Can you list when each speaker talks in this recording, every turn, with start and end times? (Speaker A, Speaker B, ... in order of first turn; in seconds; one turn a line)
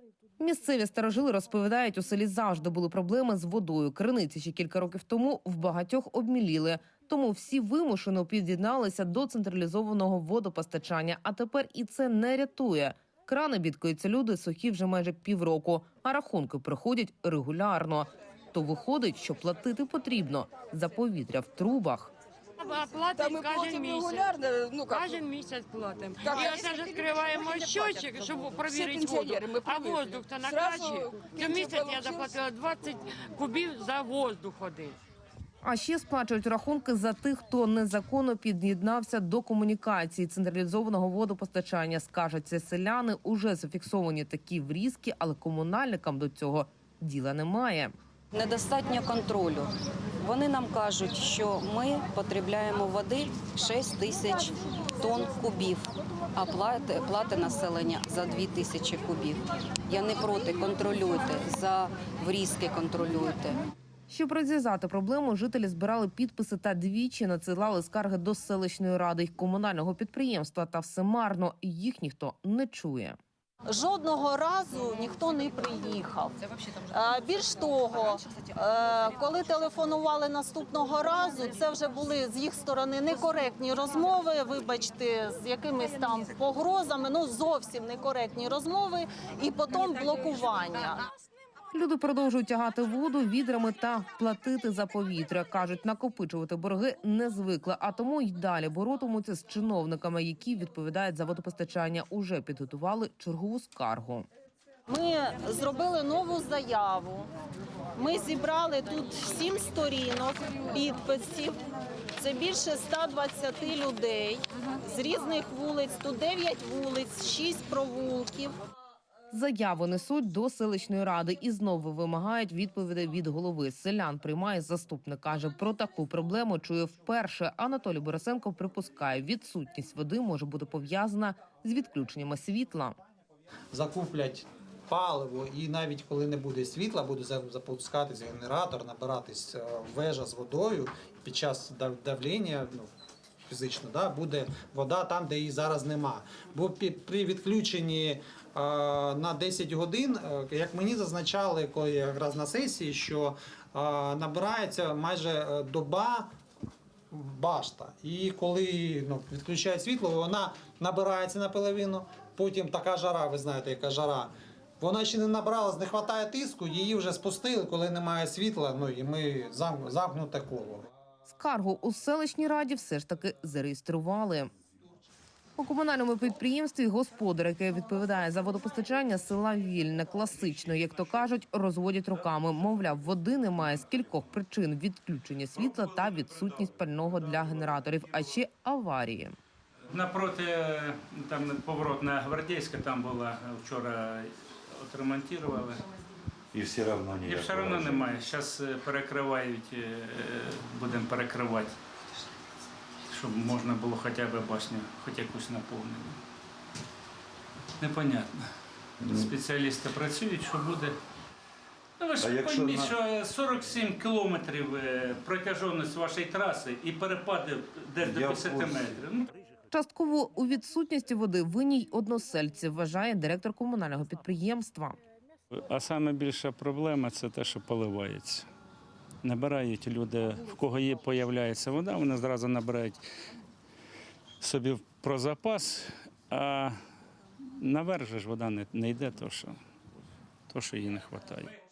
Speaker A: 0.4-22.1
Speaker B: 22.6-24.3
Speaker C: 23.1-25.1
Speaker B: 24.9-35.0
Speaker C: 26.2-27.9
Speaker C: 28.5-32.3
Speaker A: 35.6-47.9
Speaker D: 48.3-63.6
Speaker A: 64.1-73.2
Speaker E: 73.7-76.4
Speaker E: 76.9-91.0
Speaker A: 91.7-104.3
Speaker E: 104.9-107.3
Speaker E: 108.0-111.6
Speaker E: 112.2-118.5
Speaker A: 119.3-133.0
Speaker F: 133.7-142.9
Speaker F: 143.5-156.3
Speaker F: 157.1-170.8
Speaker A: 171.3-174.5
Speaker A: 175.6-189.3
Speaker G: 189.9-195.8
Speaker H: 196.5-198.0
Speaker G: 197.2-201.7
Speaker G: 203.1-206.2
Speaker G: 207.8-208.4
Speaker H: 209.0-209.3
Speaker G: 209.0-210.9
Speaker G: 212.0-219.3
Speaker H: 212.2-212.9
Speaker H: 218.0-218.9
Speaker A: 219.7-225.0
Speaker G: 225.7-228.5
Speaker G: 229.2-233.0
Speaker G: 234.4-236.7
Speaker G: 237.6-239.6
Speaker G: 240.5-241.5